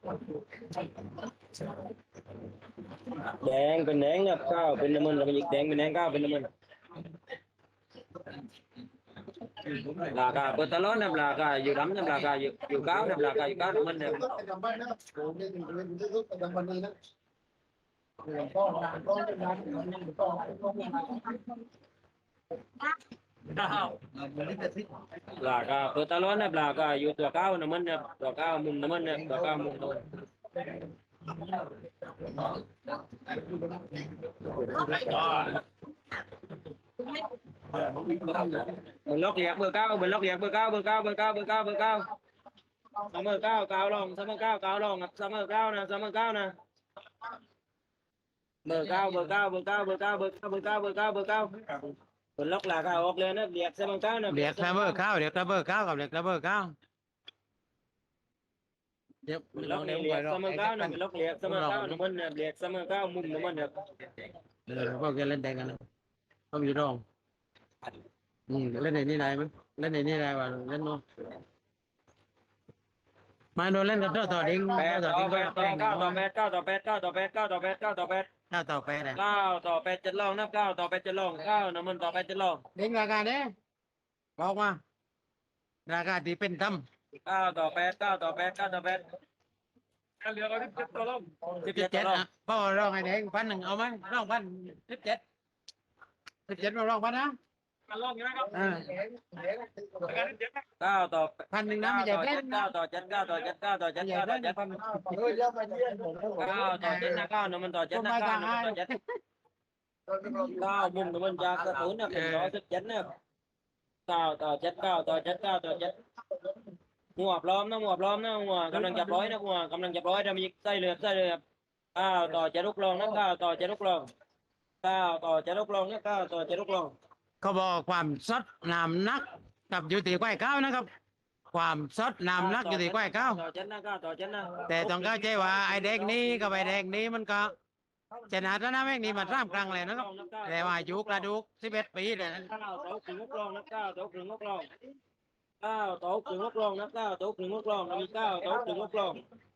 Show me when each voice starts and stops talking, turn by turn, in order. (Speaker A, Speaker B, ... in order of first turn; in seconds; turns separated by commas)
Speaker A: 3.1-6.5, Speaker A: 9.9-14.3, Speaker B: 13.1-16.9, Speaker B: 18.2-21.4, Speaker A: 25.3-30.0, Speaker A: 39.0-42.1, Speaker A: 43.1-46.5, Speaker A: 48.6-51.5, Speaker A: 52.4-55.0, Speaker C: 54.3-56.7, Speaker C: 59.2-62.0, Speaker A: 59.5-63.9, Speaker C: 64.7-65.8, Speaker C: 66.5-67.0, Speaker C: 68.5-71.0, Speaker C: 73.5-76.2, Speaker A: 74.8-78.3, Speaker C: 78.5-79.2, Speaker A: 79.1-82.6, Speaker C: 82.7-83.5, Speaker C: 84.4-84.8, Speaker C: 85.9-86.8, Speaker A: 87.2-89.0, Speaker A: 90.2-92.2, Speaker C: 91.7-95.2, Speaker C: 96.5-97.3, Speaker A: 97.9-98.7, Speaker B: 98.4-100.3, Speaker C: 98.5-98.8, Speaker A: 100.8-104.6, Speaker C: 101.5-102.7, Speaker C: 104.0-105.0, Speaker B: 104.8-107.1, Speaker A: 106.4-108.9, Speaker C: 106.7-107.2, Speaker C: 107.9-109.0, Speaker A: 110.5-113.1, Speaker C: 112.0-112.5, Speaker A: 114.1-116.0, Speaker A: 117.2-121.4, Speaker A: 121.9-124.1, Speaker A: 124.8-126.9, Speaker C: 127.4-130.9, Speaker C: 131.5-133.4, Speaker A: 132.4-136.8, Speaker C: 134.7-137.5, Speaker C: 138.3-142.5, Speaker A: 139.0-141.3, Speaker A: 142.4-144.7, Speaker A: 145.6-149.2, Speaker B: 148.2-148.9